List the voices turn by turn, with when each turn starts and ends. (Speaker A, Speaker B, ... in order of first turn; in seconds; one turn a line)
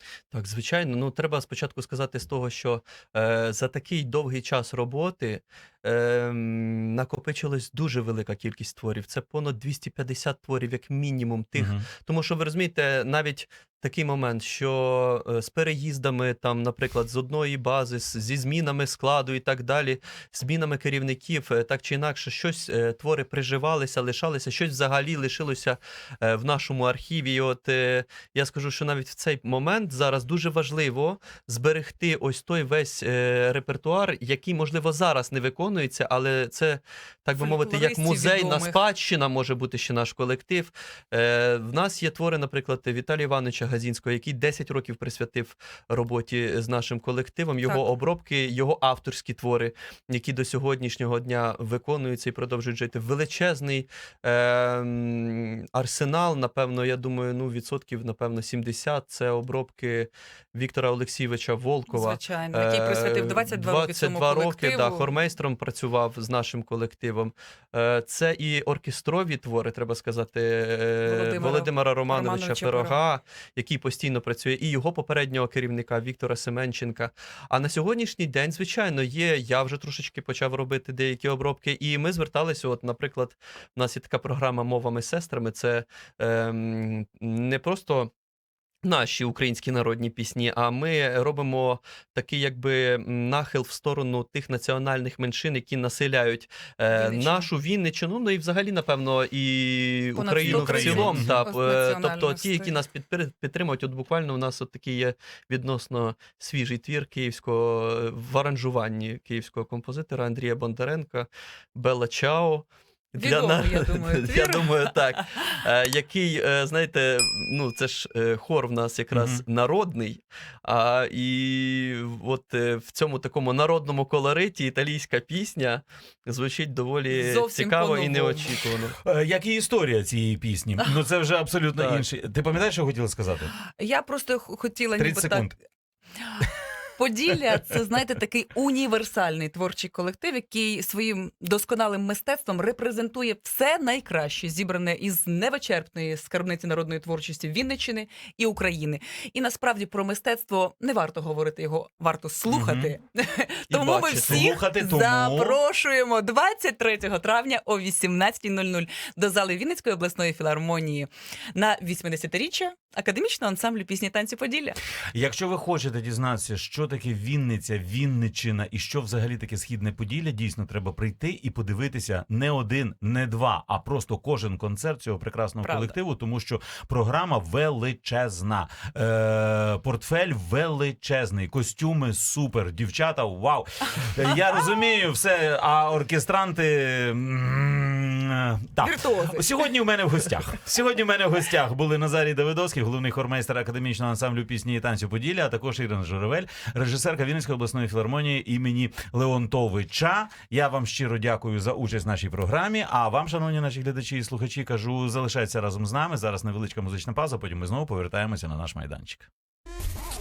Speaker A: 0.3-88.1
Speaker B: 11.6-11.9
Speaker C: 37.4-38.8
Speaker C: 61.9-65.1
Speaker C: 71.1-73.0
Speaker A: 88.8-129.0
Speaker C: 96.9-97.5
Speaker C: 100.1-102.8
Speaker B: 100.5-101.4
Speaker C: 113.2-115.0
Speaker B: 119.1-119.4
Speaker C: 127.1-128.6
Speaker B: 129.0-133.5
Speaker A: 131.8-132.1
Speaker C: 133.7-135.6
Speaker B: 135.0-135.6
Speaker C: 137.0-164.8
Speaker B: 152.5-152.9
Speaker A: 153.7-154.5
Speaker B: 154.2-155.6
Speaker B: 165.1-209.3
Speaker C: 175.6-175.9
Speaker C: 188.8-189.5